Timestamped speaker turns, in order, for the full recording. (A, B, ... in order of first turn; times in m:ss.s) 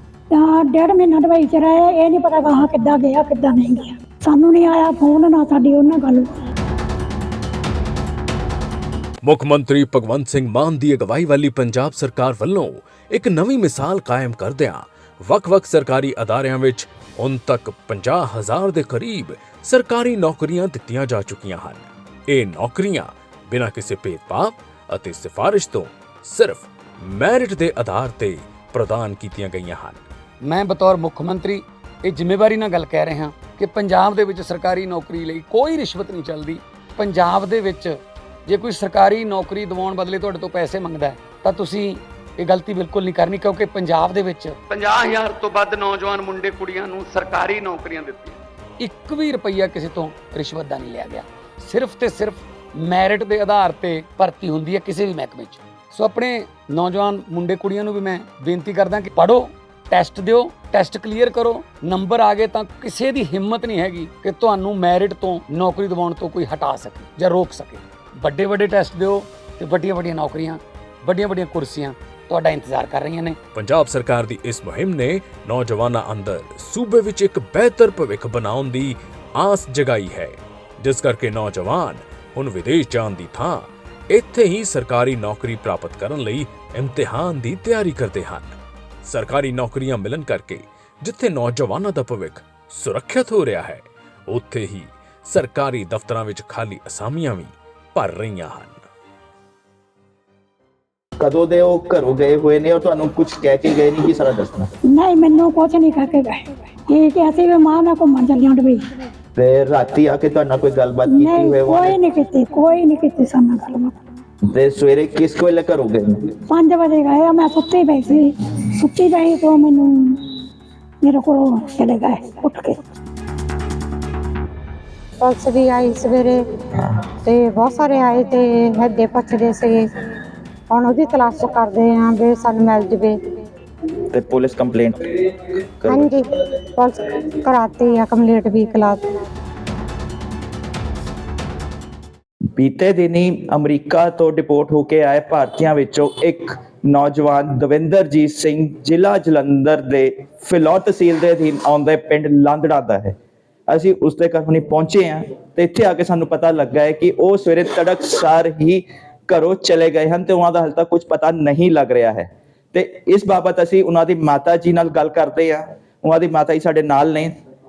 0:00.3-0:06.4 A
0:09.2-0:30.0 B
0:30.4-1:13.4 C
1:13.5-1:38.8 B
1:41.2-1:44.7 D
1:44.9-1:48.9 A
1:49.4-1:52.0 D
1:51.1-1:54.0 A
1:54.5-1:56.3 D
1:56.5-2:00.2 A
2:01.0-2:02.8 A
2:05.2-2:06.4 E
2:07.2-2:09.9 E
2:10.7-2:13.2 E
2:14.1-2:16.1 D
2:15.9-2:19.2 E
2:22.6-2:33.1 D
2:33.7-2:47.3 D